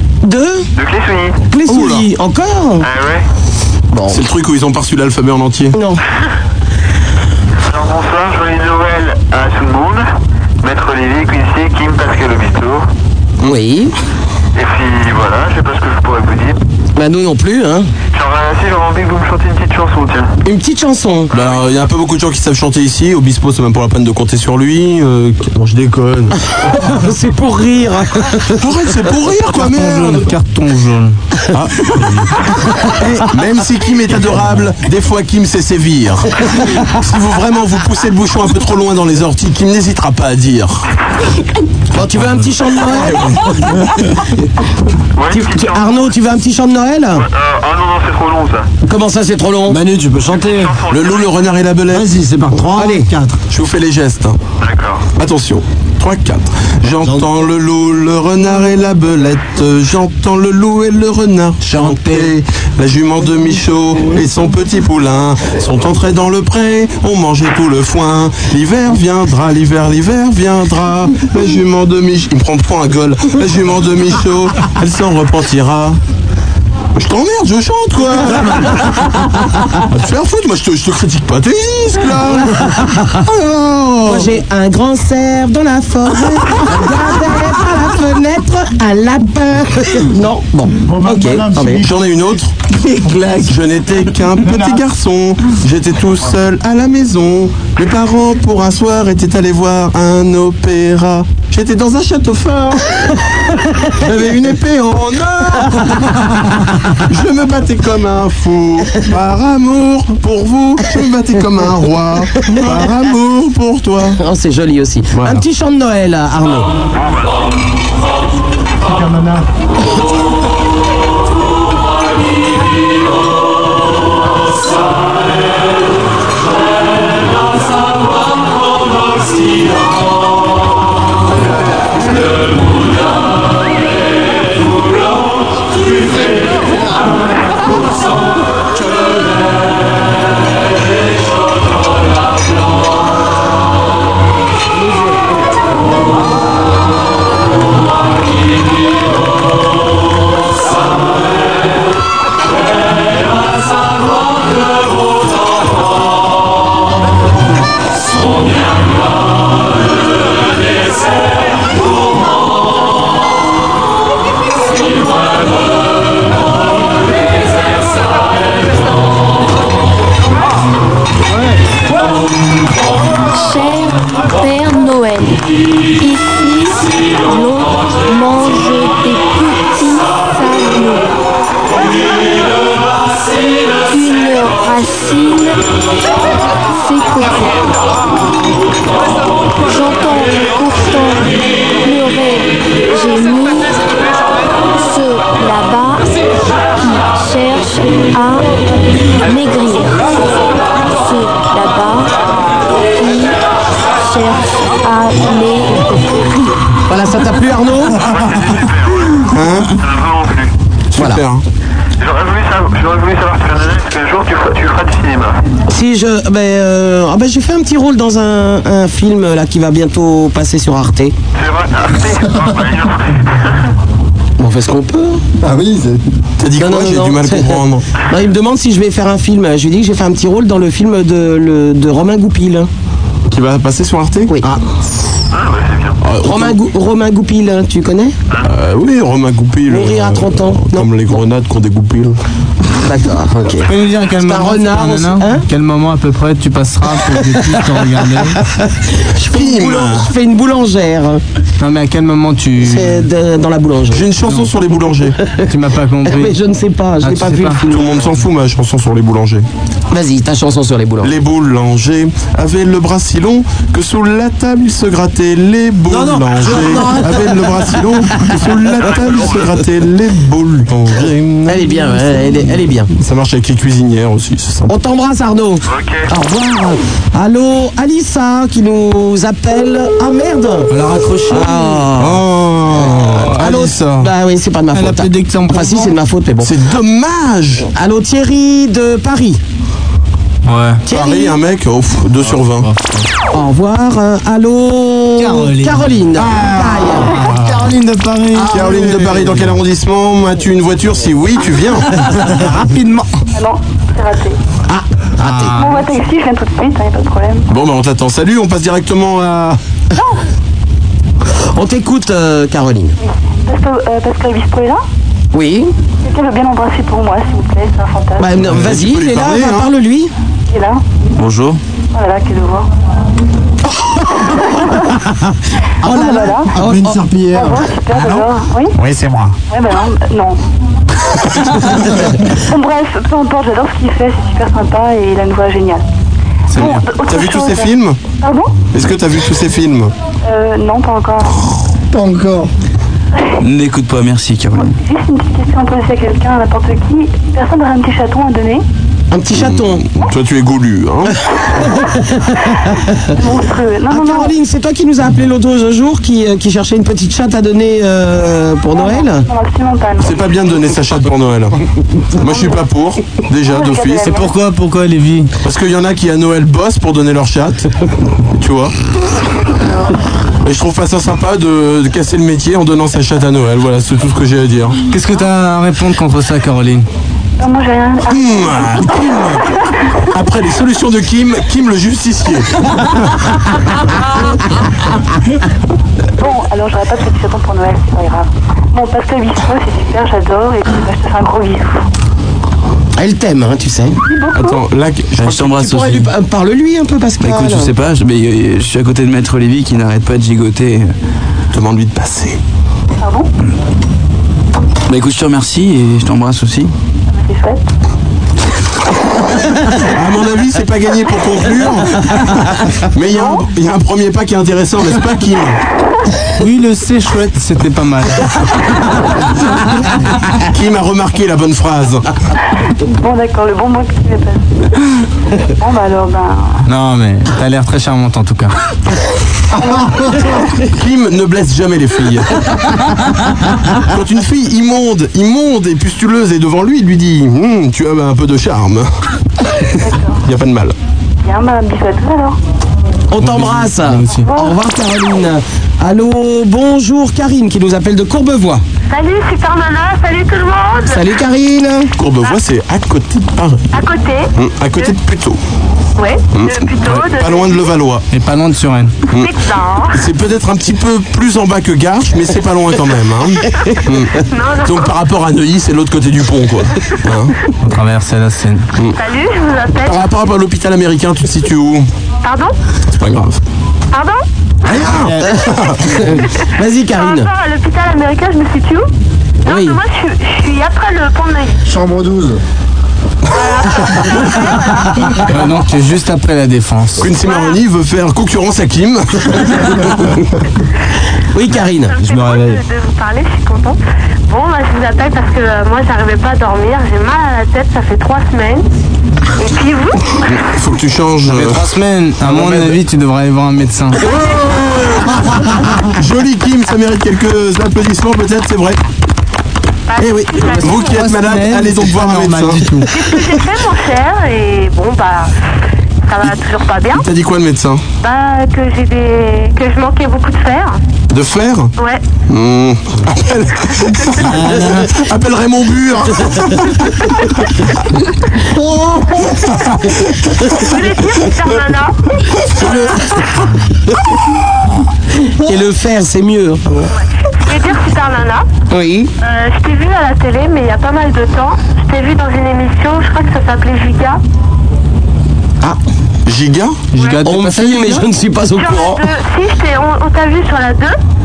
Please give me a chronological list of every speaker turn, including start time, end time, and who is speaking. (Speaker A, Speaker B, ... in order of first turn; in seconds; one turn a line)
Speaker A: 0.2-0.7
Speaker B: 0.7-1.4
Speaker A: 1.5-2.9
Speaker C: 1.7-2.1
Speaker B: 2.8-3.2
Speaker A: 3.9-4.2
Speaker C: 4.1-5.8
Speaker A: 5.7-6.0
Speaker B: 7.6-10.1
Speaker B: 10.6-12.8
Speaker A: 13.4-13.9
Speaker B: 14.5-16.6
Speaker A: 16.9-17.9
Speaker B: 18.1-20.3
Speaker A: 20.4-21.3
Speaker B: 21.3-21.6
Speaker C: 21.3-26.4
Speaker A: 26.7-28.6
Speaker C: 28.6-30.3
Speaker D: 29.5-31.1
Speaker E: 31.8-32.2
Speaker C: 32.9-40.8
Speaker A: 41.9-43.5
Speaker C: 42.9-43.8
Speaker B: 45.1-46.1
Speaker A: 45.3-47.2
Speaker B: 47.1-48.7
Speaker A: 48.9-49.8
Speaker F: 49.7-50.8
Speaker B: 50.3-51.4
Speaker C: 50.9-52.1
Speaker F: 51.9-53.4
Speaker A: 52.7-53.1
Speaker C: 53.5-54.4
Speaker B: 54.6-55.1
Speaker C: 55.1-76.0
Speaker F: 57.0-57.3
Speaker D: 61.6-62.3
Speaker C: 76.9-78.8
Speaker C: 79.9-84.2
Speaker A: 82.5-82.9
Speaker A: 84.0-91.8
Speaker F: 91.1-91.7
Speaker C: 91.7-92.5
Speaker C: 93.4-103.0
Speaker A: 103.9-104.5
Speaker C: 103.9-106.0
Speaker A: 105.7-106.4
Speaker C: 107.1-114.2
Speaker A: 114.2-116.7
Speaker C: 115.1-115.4
Speaker B: 116.9-117.4
Speaker G: 173.3-175.4
Speaker G: 176.0-181.1
Speaker G: 183.9-185.5
Speaker G: 186.8-187.5
Speaker G: 189.7-191.3
Speaker G: 191.8-193.7
Speaker G: 194.8-196.1
Speaker G: 197.2-198.4
Speaker G: 199.3-200.0
Speaker G: 201.0-202.1
Speaker G: 204.1-205.8
Speaker A: 206.9-208.0
Speaker B: 208.0-210.5
Speaker C: 209.3-209.8
Speaker C: 210.9-211.4
Speaker A: 210.9-211.2
Speaker B: 212.0-215.4
Speaker A: 215.7-221.1
Speaker B: 221.3-223.5
Speaker A: 224.4-225.2
Speaker F: 225.4-226.0
Speaker C: 226.4-227.8
Speaker A: 226.6-232.7
Speaker C: 233.3-234.3
Speaker A: 234.3-234.6
Speaker B: 235.3-236.0
Speaker C: 236.0-236.6
Speaker A: 236.2-238.2
Speaker C: 238.4-242.1
Speaker A: 239.7-241.2
Speaker A: 242.8-245.4
Speaker D: 243.7-248.4
Speaker A: 249.0-251.2
Speaker C: 249.3-250.1
Speaker D: 251.6-253.1
Speaker A: 252.6-254.1
Speaker C: 253.9-255.2
Speaker D: 255.5-256.4
Speaker A: 256.1-258.1
Speaker D: 257.0-257.6
Speaker C: 257.6-259.4
Speaker A: 259.9-261.1
Speaker C: 261.0-272.4
Speaker A: 265.9-267.1
Speaker F: 266.4-267.0
Speaker B: 268.8-269.5
Speaker A: 271.5-272.9
Speaker C: 272.9-274.7
Speaker A: 274.7-280.7
Speaker B: 275.6-276.1
Speaker D: 280.7-281.8
Speaker A: 281.3-282.2
Speaker C: 281.9-284.1
Speaker A: 282.8-286.5
Speaker D: 284.7-285.9
Speaker C: 286.4-287.6
Speaker A: 287.7-289.4
Speaker D: 290.4-290.8
Speaker A: 290.9-291.3
Speaker C: 290.9-292.7
Speaker D: 292.3-293.0
Speaker A: 293.3-297.2
Speaker D: 295.2-299.4
Speaker C: 297.2-297.6
Speaker C: 298.3-302.1
Speaker D: 302.1-303.1
Speaker H: 303.3-304.4
Speaker A: 304.7-305.6
Speaker D: 305.2-305.9
Speaker H: 305.5-307.5
Speaker C: 307.5-309.6
Speaker A: 311.5-312.9
Speaker H: 313.0-314.8
Speaker A: 315.3-315.7
Speaker H: 316.0-318.4
Speaker A: 318.2-320.1
Speaker C: 318.3-319.7
Speaker H: 320.5-320.8
Speaker E: 321.2-321.6
Speaker H: 321.9-322.7
Speaker A: 325.8-327.0
Speaker H: 325.8-326.5
Speaker F: 325.9-327.6
Speaker H: 327.3-328.8
Speaker H: 329.5-330.4
Speaker H: 332.3-335.8
Speaker H: 336.5-338.5
Speaker C: 336.9-338.0
Speaker C: 338.7-339.9
Speaker H: 340.2-341.4
Speaker F: 341.9-342.5
Speaker E: 343.4-344.8
Speaker H: 344.6-348.6
Speaker A: 349.1-349.8
Speaker C: 349.3-351.7
Speaker H: 353.1-354.4
Speaker A: 353.9-359.3
Speaker H: 358.7-360.2
Speaker C: 360.0-361.6
Speaker C: 362.2-364.2
Speaker H: 362.2-362.6
Speaker H: 363.4-364.3
Speaker D: 364.0-365.3
Speaker C: 365.4-367.7
Speaker C: 368.4-368.7
Speaker H: 369.4-369.9
Speaker C: 370.4-374.8
Speaker D: 374.9-376.9
Speaker H: 377.4-378.9
Speaker C: 378.1-379.4
Speaker C: 380.1-382.5
Speaker H: 386.2-391.8
Speaker A: 393.0-394.0
Speaker H: 394.0-394.6
Speaker C: 394.3-395.4
Speaker E: 395.2-396.1
Speaker A: 395.3-397.7
Speaker E: 397.2-400.9
Speaker C: 401.5-402.4
Speaker H: 403.0-403.3
Speaker E: 404.9-406.7
Speaker H: 407.1-407.6
Speaker C: 409.9-412.4
Speaker C: 412.9-415.6
Speaker H: 413.1-413.4
Speaker D: 416.4-418.3
Speaker C: 420.5-422.0
Speaker H: 422.8-424.5
Speaker H: 425.5-426.6
Speaker D: 426.6-428.5
Speaker C: 430.6-432.3
Speaker C: 433.9-438.9
Speaker H: 439.8-440.2
Speaker C: 440.2-440.7
Speaker H: 441.2-442.4
Speaker A: 443.1-448.6
Speaker D: 443.2-444.3
Speaker H: 444.1-444.6
Speaker I: 448.9-451.0
Speaker A: 450.9-451.9
Speaker C: 452.0-453.7
Speaker I: 453.7-454.9
Speaker C: 454.4-455.4
Speaker I: 456.0-457.7
Speaker C: 456.3-458.0
Speaker D: 458.1-458.9
Speaker I: 459.1-460.0
Speaker C: 459.9-467.3
Speaker I: 464.2-464.9
Speaker D: 467.6-468.7
Speaker I: 468.9-470.1
Speaker C: 469.8-471.9
Speaker I: 472.2-472.5
Speaker C: 473.0-473.4
Speaker I: 473.9-474.2
Speaker C: 474.7-476.0
Speaker A: 475.2-477.3
Speaker I: 476.9-478.9
Speaker I: 479.4-481.6
Speaker A: 479.4-479.8
Speaker F: 481.6-482.4
Speaker I: 483.3-485.1
Speaker D: 485.2-487.1
Speaker C: 487.0-490.2
Speaker I: 487.2-487.6
Speaker A: 491.3-492.0
Speaker I: 491.6-498.6
Speaker F: 492.0-492.6
Speaker I: 499.4-500.3
Speaker C: 500.2-501.7
Speaker D: 501.2-504.0
Speaker C: 502.2-502.8
Speaker C: 504.0-508.8
Speaker I: 509.9-510.9
Speaker C: 510.0-512.7
Speaker D: 510.5-512.9
Speaker I: 512.9-515.3
Speaker I: 516.0-517.0
Speaker C: 516.9-517.8
Speaker I: 518.0-520.8
Speaker C: 521.1-521.7
Speaker C: 522.3-527.3
Speaker D: 524.2-524.9
Speaker C: 530.2-530.5
Speaker I: 530.5-532.0
Speaker I: 532.5-533.5
Speaker A: 535.3-536.6
Speaker I: 537.0-538.5
Speaker A: 538.7-539.1
Speaker I: 539.2-544.2
Speaker C: 546.2-546.8
Speaker D: 546.9-548.0
Speaker I: 547.0-547.2
Speaker A: 547.2-549.0
Speaker I: 548.5-551.0